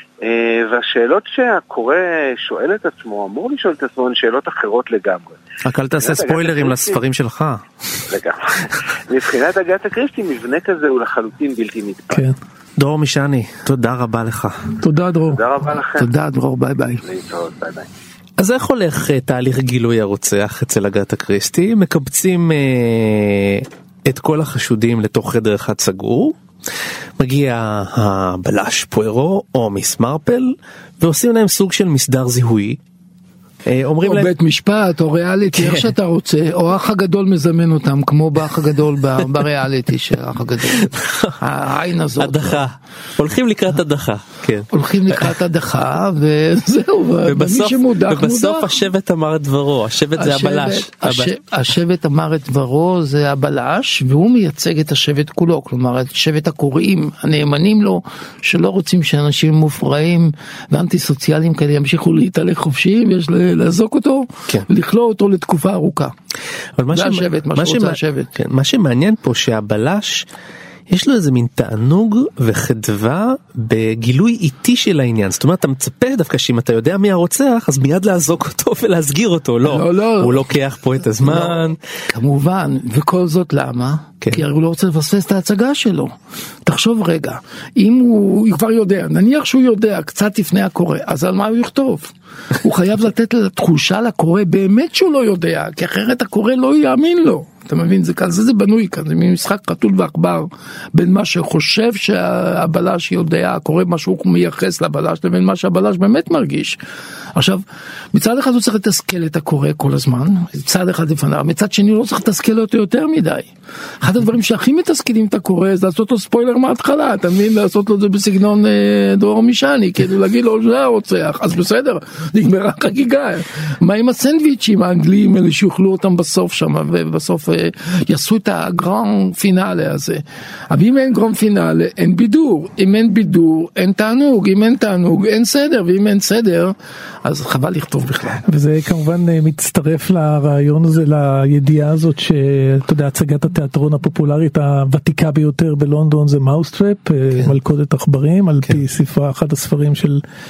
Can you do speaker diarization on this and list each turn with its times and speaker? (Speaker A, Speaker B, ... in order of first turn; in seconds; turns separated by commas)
Speaker A: 0.2-5.4, Speaker B: 5.6-7.6, Speaker A: 6.0-7.0, Speaker A: 8.1-12.3, Speaker C: 12.1-12.4, Speaker B: 12.8-14.6, Speaker C: 14.8-15.4, Speaker A: 15.3-16.1, Speaker D: 16.0-17.0, Speaker A: 17.0-17.9, Speaker B: 18.4-26.4, Speaker B: 27.2-32.8, Speaker B: 33.6-34.3, Speaker D: 34.0-42.6, Speaker B: 35.5-35.9, Speaker B: 40.6-41.4, Speaker B: 42.2-45.3, Speaker D: 44.7-48.8, Speaker B: 47.3-51.3, Speaker D: 50.1-66.1, Speaker B: 66.8-70.3, Speaker D: 66.9-68.3, Speaker B: 70.9-81.8, Speaker D: 79.6-80.5, Speaker D: 81.2-86.1, Speaker D: 86.6-106.8, Speaker D: 107.3-107.6, Speaker D: 108.1-113.5, Speaker D: 114.0-138.4, Speaker C: 138.4-150.2